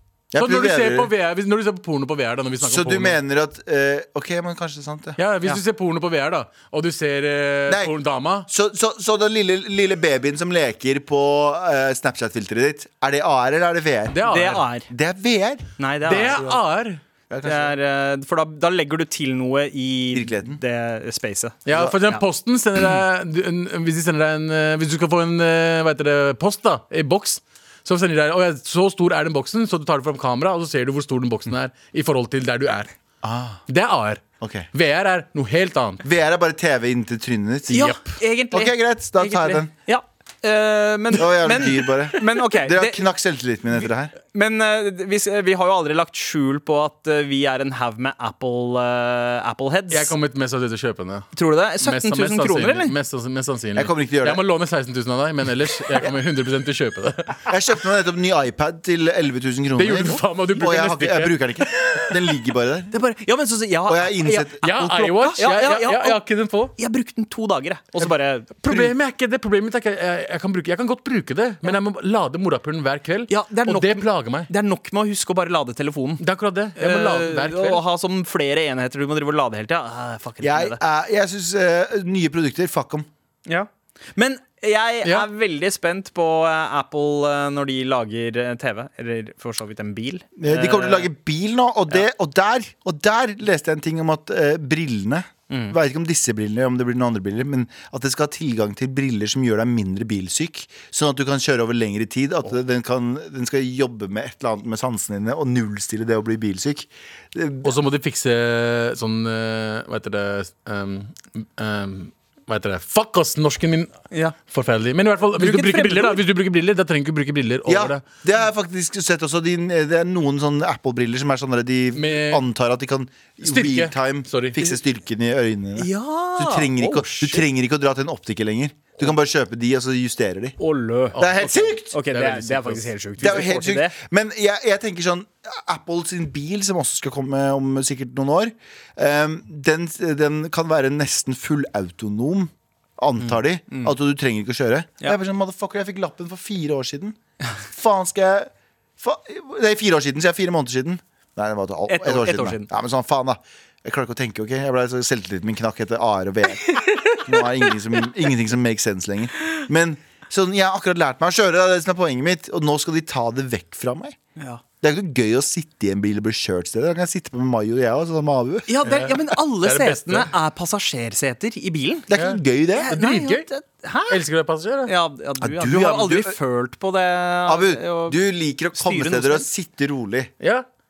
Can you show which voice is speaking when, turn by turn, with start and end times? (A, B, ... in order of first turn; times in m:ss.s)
0:00.3-0:01.1 A
0:00.4-0:03.2 B
0:02.6-0:05.2 A
0:05.2-0:08.5 B
0:07.7-0:07.9 A
0:08.5-0:14.2 A
0:14.1-0:14.6 B
0:14.2-0:14.9 C
0:14.9-0:15.7 A
0:15.8-0:16.5 C
0:16.0-0:17.0 B
0:16.2-0:16.6 A
0:17.3-0:17.7 A
0:17.4-0:21.6 C
0:20.1-0:20.6 A
0:21.6-0:32.9 B
0:21.7-0:21.9 A
0:33.2-0:33.6 A
0:33.7-0:36.0 B
0:34.4-0:34.7 A
0:36.0-0:38.0 A
0:37.7-0:43.0 C
0:38.5-0:39.7 A
0:41.1-0:44.1 A
0:44.3-0:50.1 C
0:49.9-0:51.3 B
0:51.3-0:52.9 C
0:51.8-0:57.5 B
0:53.7-0:54.4 A
0:57.5-1:02.9 A
0:59.8-1:01.5 B
1:02.9-1:06.2 C
1:03.9-1:04.6 A
1:04.6-1:06.7 B
1:06.8-1:08.9 C
1:08.6-1:14.5 B
1:13.3-1:16.2 C
1:16.2-1:17.8 B
1:16.8-1:20.8 C
1:20.4-1:23.1 A
1:23.4-1:31.1 C
1:30.4-1:47.7 A
1:35.5-1:35.8 C
1:47.6-1:53.9 B
1:54.5-1:58.0 B
1:55.4-1:56.2 C
1:57.7-2:10.6 A
2:02.0-2:02.4 B
2:03.4-2:04.6 B
2:05.8-2:07.4 C
2:10.6-2:14.0 C
2:11.2-2:11.9 A
2:11.2-2:12.8 B
2:13.2-2:44.2 A
2:23.2-2:23.9 C
2:31.9-2:32.7 C
2:36.8-2:37.2 C
2:44.8-2:48.8 A
2:48.7-2:52.1 C
2:48.8-2:50.3 B
2:52.1-2:52.9 A
2:52.1-2:53.4 B
2:52.7-2:54.2 C
2:54.1-2:54.9 B
2:54.8-2:58.2 C
2:55.4-2:56.4 A
2:57.4-3:00.3 A
2:58.7-2:59.5 C
3:00.4-3:00.6 B